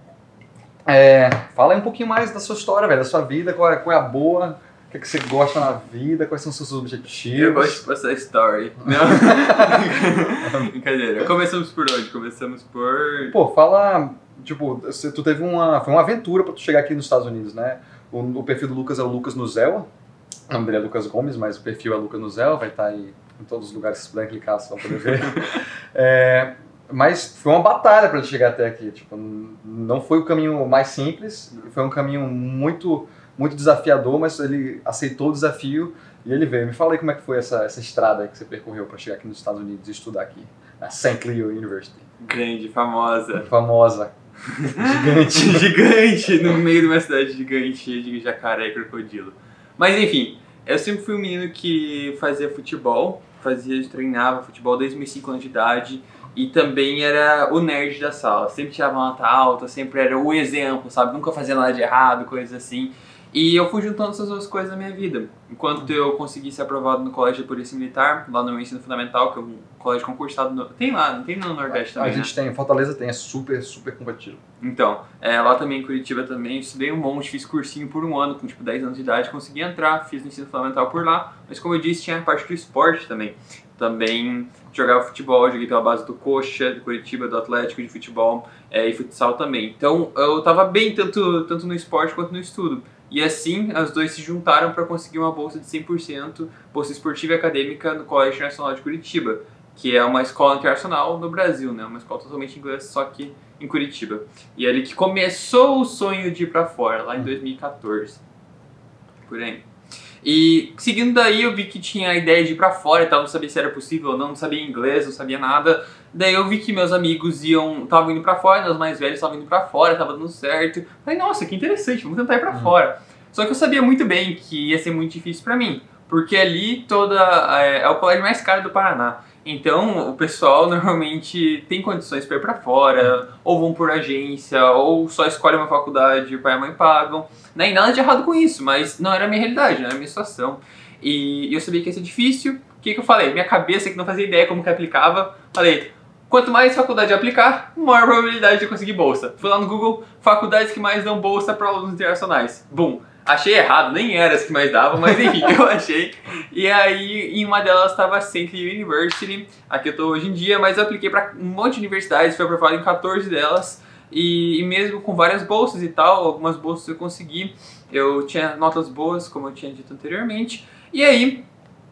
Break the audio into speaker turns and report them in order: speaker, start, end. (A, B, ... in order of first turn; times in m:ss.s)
0:00.9-0:07.8 A
0:07.4-0:13.4 B
0:08.8-0:10.7 A
0:13.3-0:19.9 A
0:20.5-0:42.1 A
0:42.2-0:43.5 B
0:43.4-0:45.7 A
0:44.5-1:12.3 B
1:11.7-1:14.4 A
1:14.6-1:48.2 B
1:49.2-1:49.6 B
1:50.2-2:51.5 B